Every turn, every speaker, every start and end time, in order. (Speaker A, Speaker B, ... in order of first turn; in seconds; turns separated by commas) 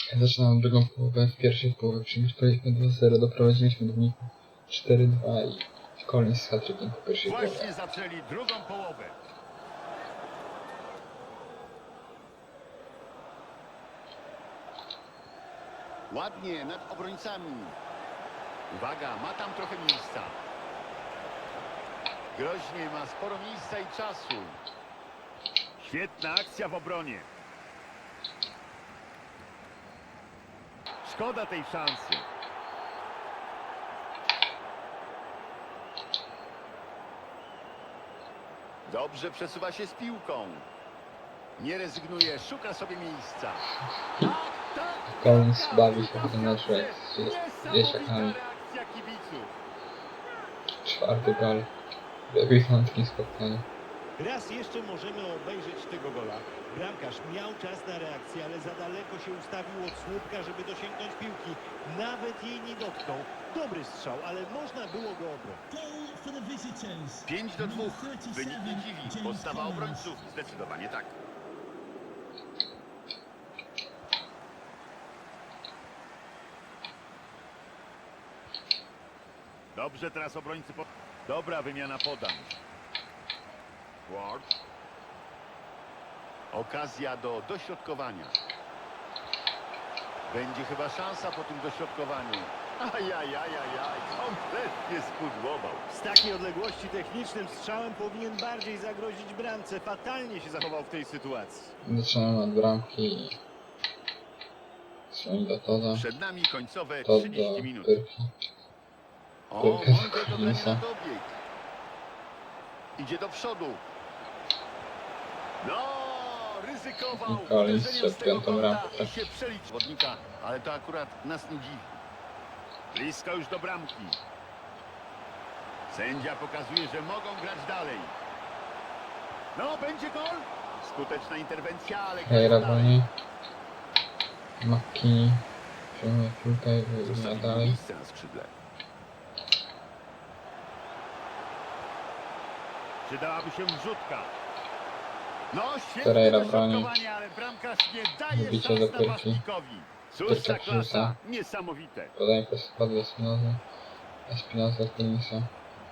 Speaker A: 0.1-7.7, Speaker B: 7.2-9.2, Speaker B: 16.1-17.8, Speaker B: 18.7-20.4, Speaker B: 22.3-24.6, Speaker B: 25.8-27.3, Speaker B: 31.0-32.3, Speaker B: 38.8-40.7, Speaker B: 41.6-43.6, Speaker A: 44.0-44.3, Speaker B: 44.2-49.5, Speaker A: 45.1-48.4, Speaker A: 50.8-51.7, Speaker A: 52.3-53.6, Speaker C: 54.2-65.6, Speaker D: 65.7-70.2, Speaker B: 67.2-71.2, Speaker B: 79.7-82.6, Speaker B: 84.0-84.5, Speaker B: 86.5-88.3, Speaker B: 90.3-95.9, Speaker C: 95.9-101.7, Speaker A: 101.8-103.4, Speaker A: 105.1-106.1, Speaker B: 105.9-107.9, Speaker A: 107.0-108.3, Speaker B: 109.5-111.4, Speaker A: 109.6-110.8, Speaker B: 113.0-113.8, Speaker B: 115.6-122.0, Speaker A: 117.1-119.1, Speaker B: 122.9-124.2, Speaker B: 125.9-128.2, Speaker B: 129.5-133.0, Speaker A: 132.2-133.1, Speaker A: 134.6-137.8, Speaker B: 137.0-138.5, Speaker B: 143.0-144.3, Speaker B: 145.5-152.1, Speaker A: 146.0-146.9, Speaker A: 148.3-149.4, Speaker A: 150.2-151.2, Speaker A: 152.1-153.6, Speaker A: 154.3-155.5